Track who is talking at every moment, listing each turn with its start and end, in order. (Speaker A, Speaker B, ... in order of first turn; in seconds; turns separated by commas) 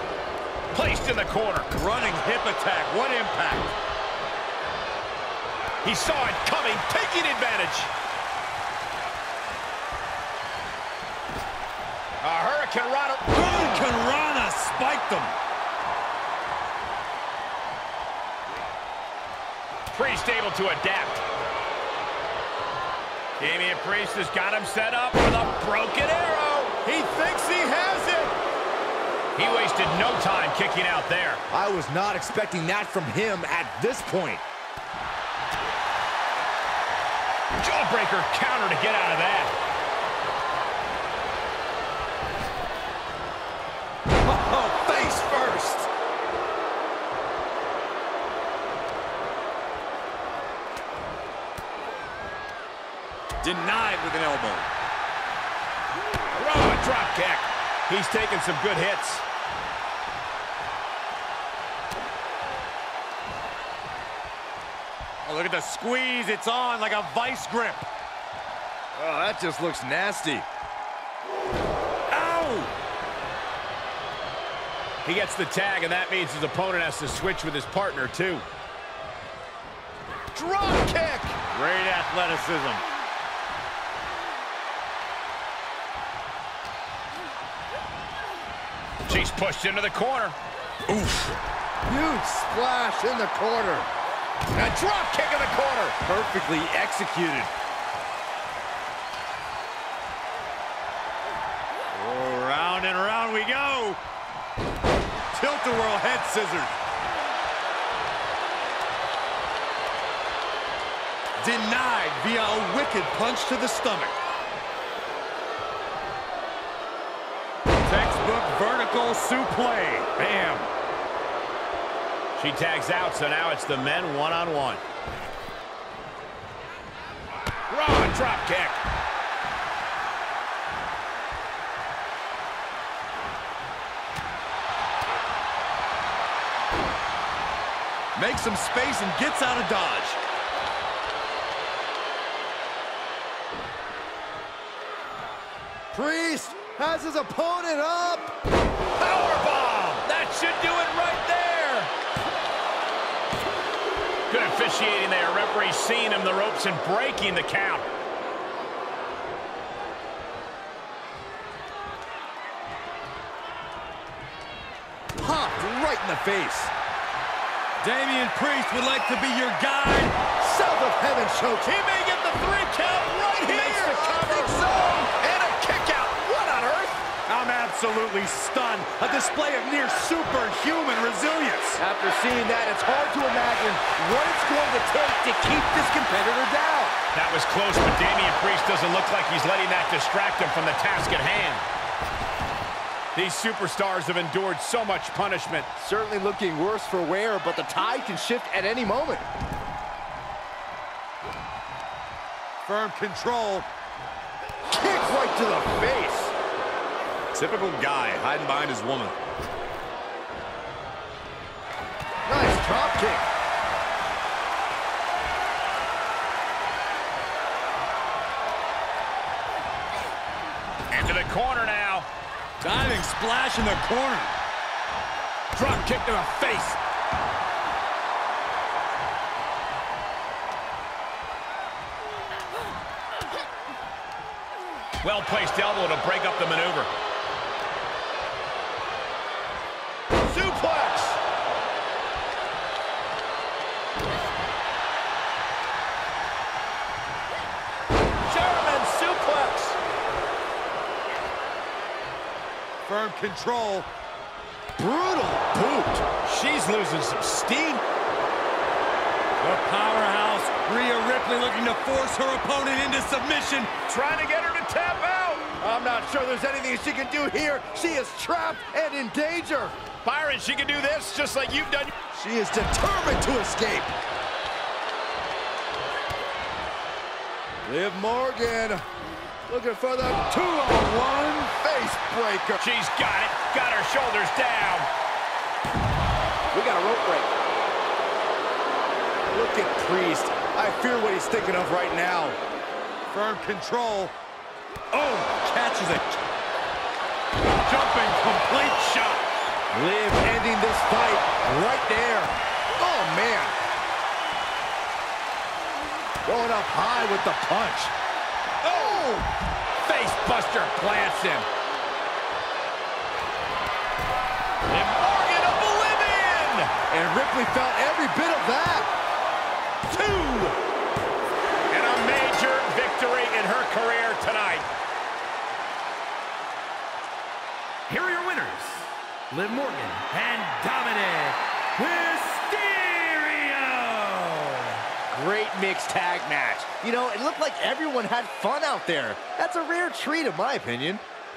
Speaker A: 0.7-1.7, Speaker B: 1.7-3.7, Speaker A: 5.8-7.9, Speaker A: 12.2-13.8, Speaker B: 13.3-15.3, Speaker A: 19.9-21.2, Speaker A: 23.4-27.2, Speaker C: 26.9-28.3, Speaker A: 29.3-31.4, Speaker C: 31.5-34.4, Speaker A: 37.5-39.5, Speaker B: 44.3-45.4, Speaker C: 44.8-45.5, Speaker B: 53.4-54.7, Speaker A: 56.3-59.2, Speaker B: 65.2-67.9, Speaker C: 68.9-70.5, Speaker B: 72.1-72.7, Speaker A: 75.0-78.4, Speaker C: 80.3-81.3, Speaker B: 81.5-82.8, Speaker A: 89.0-90.4, Speaker B: 90.9-91.3, Speaker C: 91.9-93.9, Speaker A: 94.5-96.0, Speaker C: 96.0-97.5, Speaker B: 101.9-104.0, Speaker B: 105.3-106.8, Speaker B: 111.4-114.1, Speaker B: 117.8-120.7, Speaker A: 122.3-124.8, Speaker A: 127.7-128.8, Speaker B: 138.1-140.2, Speaker C: 145.9-148.3, Speaker A: 149.0-151.9, Speaker A: 154.3-157.9, Speaker C: 165.2-166.7, Speaker B: 167.8-170.2, Speaker C: 170.4-171.9, Speaker A: 172.2-174.6, Speaker C: 173.4-177.0, Speaker B: 177.3-181.8, Speaker C: 181.8-186.9, Speaker A: 187.1-191.6, Speaker A: 193.1-195.7, Speaker C: 195.8-199.3, Speaker B: 202.6-203.7, Speaker C: 204.7-206.3, Speaker B: 207.3-209.2, Speaker C: 212.3-213.2, Speaker A: 220.9-222.1, Speaker B: 222.6-224.3, Speaker A: 225.5-226.8, Speaker A: 235.0-236.9, Speaker A: 240.3-241.2, Speaker A: 248.2-249.8, Speaker B: 252.8-253.9, Speaker C: 254.8-256.1, Speaker A: 256.2-257.8, Speaker B: 259.4-263.7, Speaker A: 263.8-265.5, Speaker C: 265.6-269.7, Speaker A: 270.0-271.9, Speaker C: 272.1-273.9, Speaker C: 277.6-278.8, Speaker C: 279.5-280.3, Speaker B: 280.3-281.5, Speaker C: 281.5-282.6, Speaker A: 282.6-284.9, Speaker A: 286.5-286.9, Speaker C: 286.6-287.2, Speaker C: 289.3-292.4, Speaker B: 293.1-294.1, Speaker B: 294.9-296.2, Speaker B: 297.6-299.2, Speaker C: 299.7-303.6, Speaker C: 306.2-307.9, Speaker A: 308.6-309.2, Speaker A: 309.8-311.5, Speaker A: 314.7-316.8, Speaker C: 316.9-318.9, Speaker A: 319.9-320.3, Speaker C: 320.0-320.4, Speaker A: 321.7-324.6, Speaker D: 327.9-334.8, Speaker C: 335.1-341.0